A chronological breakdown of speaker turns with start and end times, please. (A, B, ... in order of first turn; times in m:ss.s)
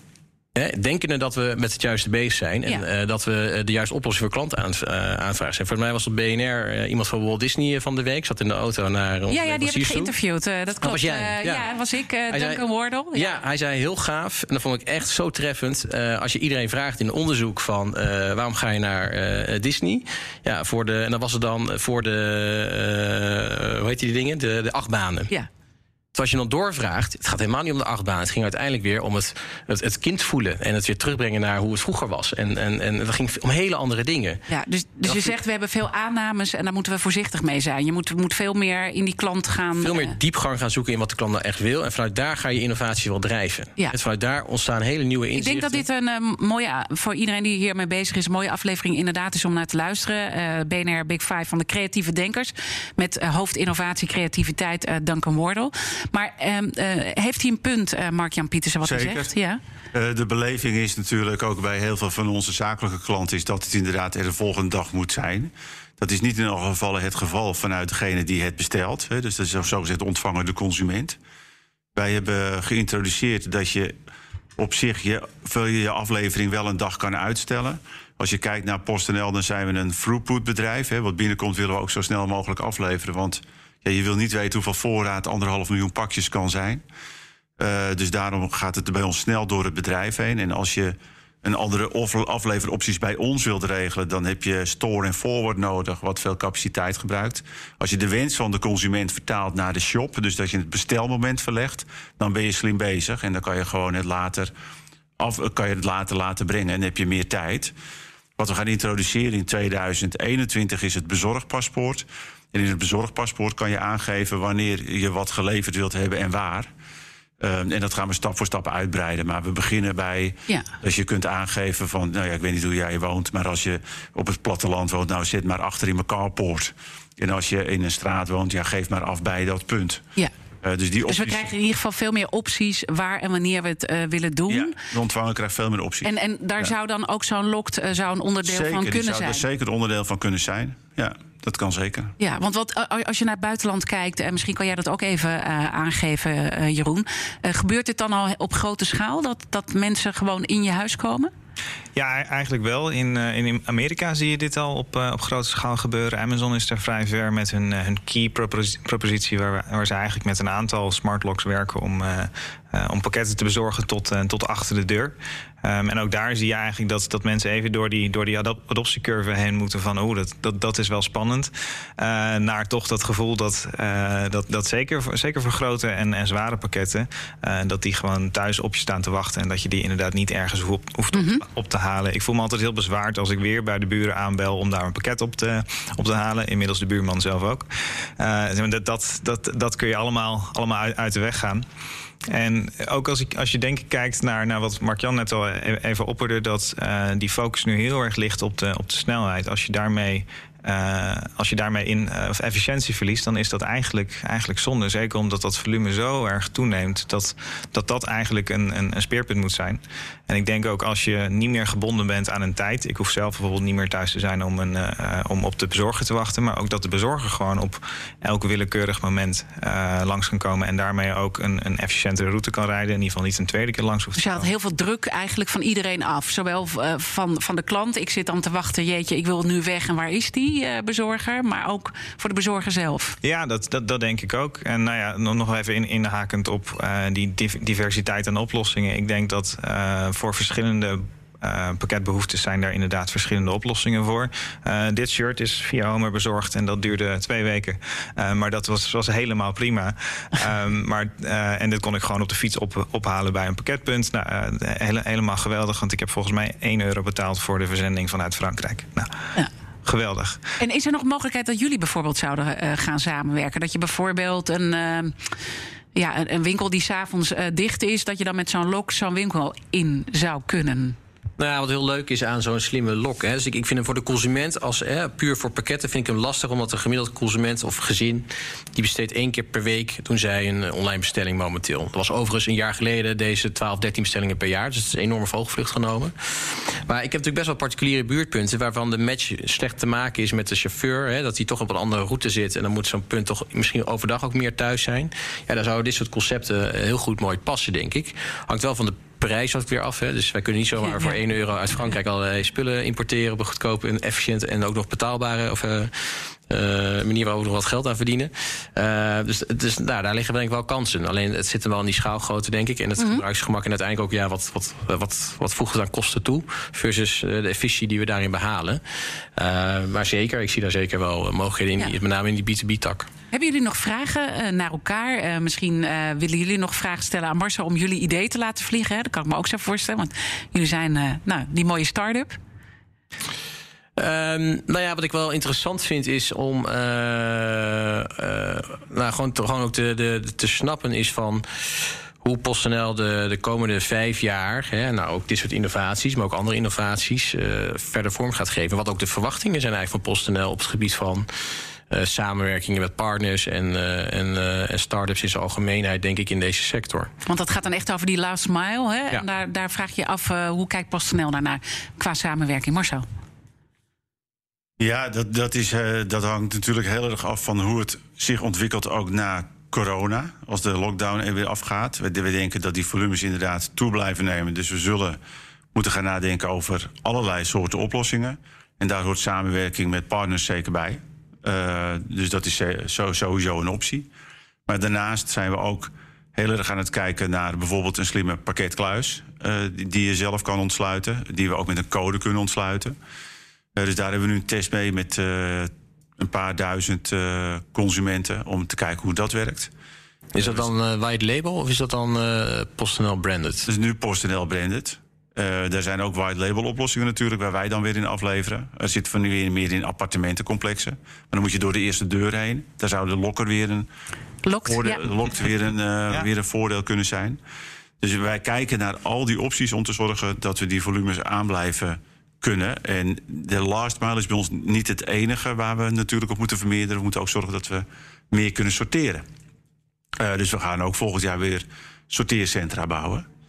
0:00.5-0:10.1 A
0:09.3-0:13.3 B
0:10.8-0:11.7 A
0:12.3-0:12.6 A
0:13.1-0:25.3 A
0:26.1-0:34.4 A
0:34.5-0:40.2 B
0:35.0-0:35.4 A
0:39.8-0:45.8 A
0:45.3-0:59.6 B
0:58.8-0:59.3 C
0:59.9-1:11.2 C
1:12.0-1:13.9 C
1:14.6-1:26.8 C
1:27.6-1:44.5 C
1:45.2-1:47.7 C
1:48.4-1:56.7 C
1:57.4-2:10.0 C
2:10.6-2:11.5 C
2:11.0-2:14.7 B
2:14.5-2:16.7 C
2:16.0-2:19.4 B
2:18.4-2:22.1 C
2:22.2-2:31.3 B
2:31.9-3:11.6 D
3:01.1-3:01.4 B
3:12.3-3:44.5 D
3:44.2-3:53.2 B
3:53.2-4:19.1 D
4:19.8-4:20.4 D
4:20.6-4:25.2 B
4:25.9-4:31.0 B
4:31.4-5:18.8 A
5:00.8-5:01.2 B
5:13.0-5:13.2 B
5:19.4-5:23.1 A
5:23.3-5:32.4 B
5:34.0-5:51.3 A
5:51.9-5:57.1 A
5:57.2-6:03.0 B
6:04.8-6:15.2 C
6:15.7-6:24.1 C
6:24.7-6:33.0 C
6:33.8-6:39.7 C
6:40.3-6:43.7 A
6:40.4-6:40.7 C
6:43.6-6:53.9 C
6:54.4-6:55.0 B
6:54.6-6:57.4 C
6:58.0-7:09.2 C
7:10.2-7:13.2 C